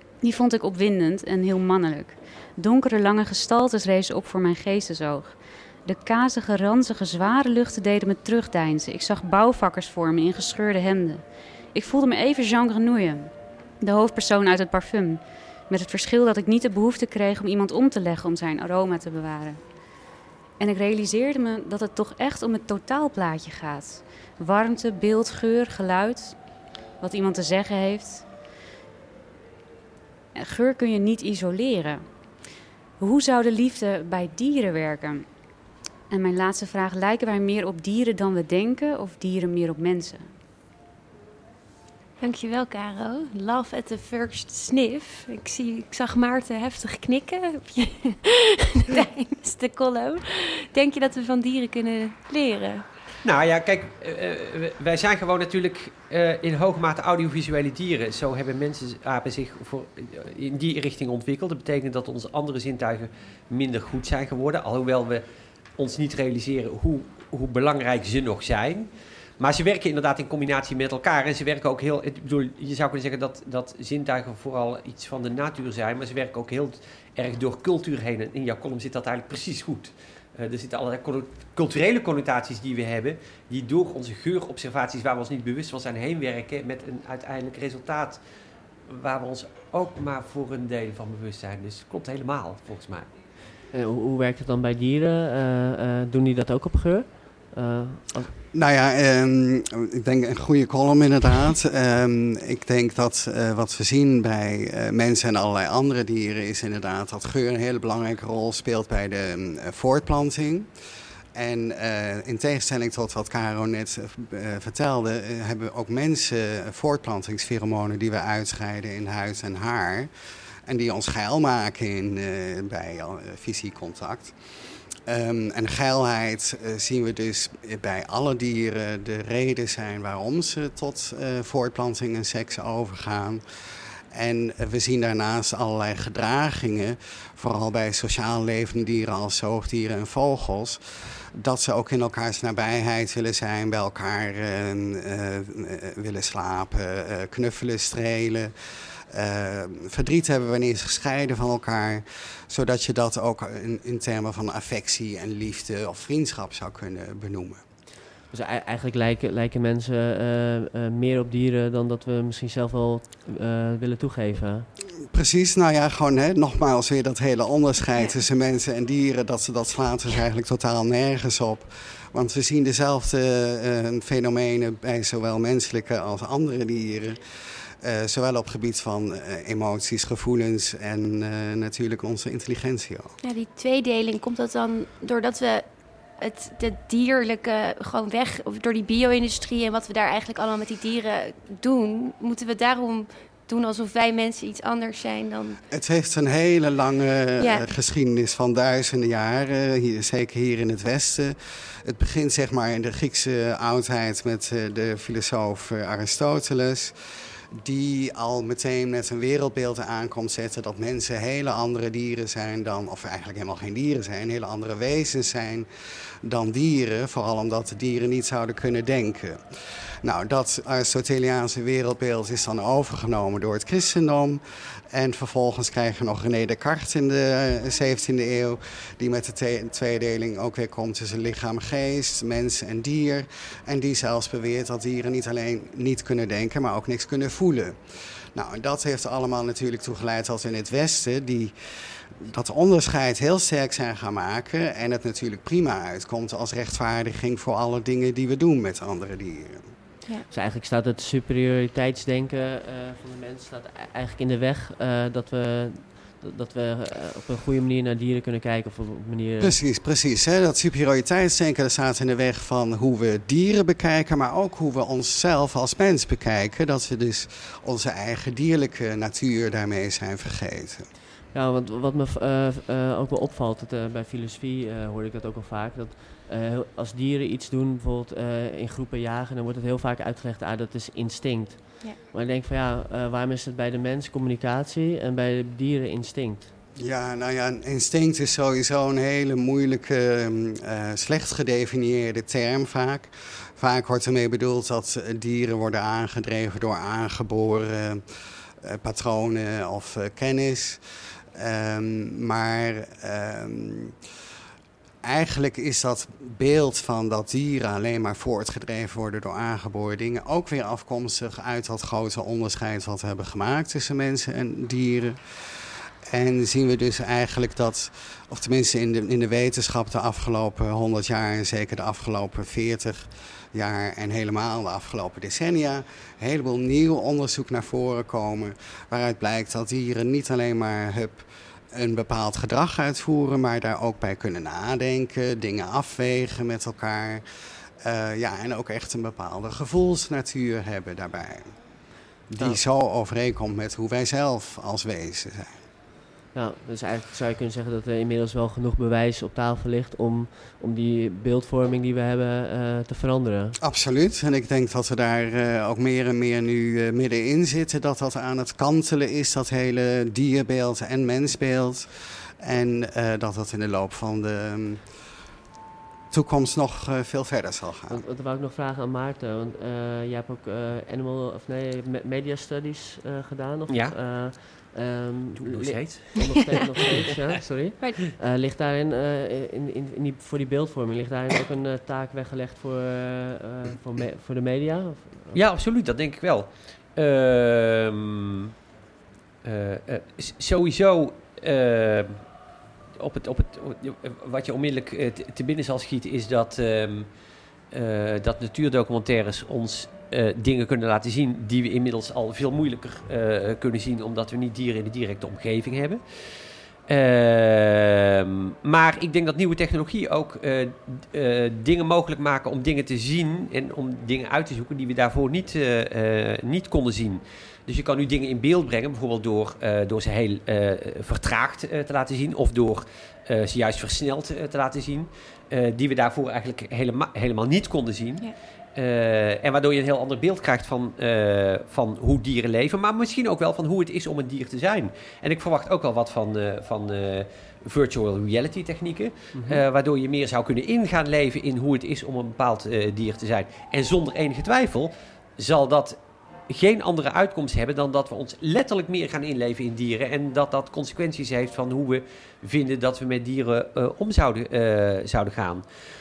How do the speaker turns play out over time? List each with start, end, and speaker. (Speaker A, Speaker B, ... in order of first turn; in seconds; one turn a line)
Speaker A: 0.2-11.2
Speaker A: 11.7-13.3
Speaker A: 13.8-19.6
Speaker A: 20.6-26.4
Speaker A: 27.0-28.2
Speaker A: 30.4-32.0
Speaker A: 33.0-35.2
Speaker A: 36.1-40.2
Speaker B: 42.2-52.8
Speaker C: 53.2-65.2
Speaker C: 65.8-88.2
Speaker C: 88.9-93.1
Speaker D: 93.7-98.3
Speaker E: 98.5-110.7
Speaker E: 111.3-120.1
Speaker E: 120.7-124.3
Speaker E: 125.0-133.4
Speaker E: 134.1-140.8
Speaker E: 141.3-148.5
Speaker E: 149.1-157.6
Speaker D: 158.3-164.7
Speaker E: 165.1-177.2
Speaker E: 177.8-183.1
Speaker B: 183.2-195.6
Speaker E: 195.7-206.9
Speaker B: 197.4-197.7
Speaker E: 207.6-215.7
Speaker E: 216.2-237.8
Speaker E: 238.3-249.7
Speaker D: 250.3-259.6
Speaker E: 259.4-270.9
Speaker D: 271.3-286.5
Speaker E: 286.8-298.0
Speaker E: 298.6-300.8
Speaker E: 301.3-303.9
Speaker E: 305.0-315.2
Speaker E: 316.1-337.2
Speaker E: 337.8-341.6
Speaker E: 342.3-345.6
Speaker D: 346.3-353.6
Speaker E: 353.6-361.9
Speaker E: 362.4-364.9
Speaker E: 366.1-368.0
Speaker D: 367.9-385.4
Speaker C: 373.7-373.9
Speaker C: 375.4-377.1
Speaker B: 377.8-378.1
Speaker C: 385.3-388.5
Speaker C: 389.4-392.2
Speaker C: 393.0-397.1
Speaker C: 397.7-406.0
Speaker C: 406.9-446.0
Speaker D: 439.3-439.6
Speaker C: 446.5-455.6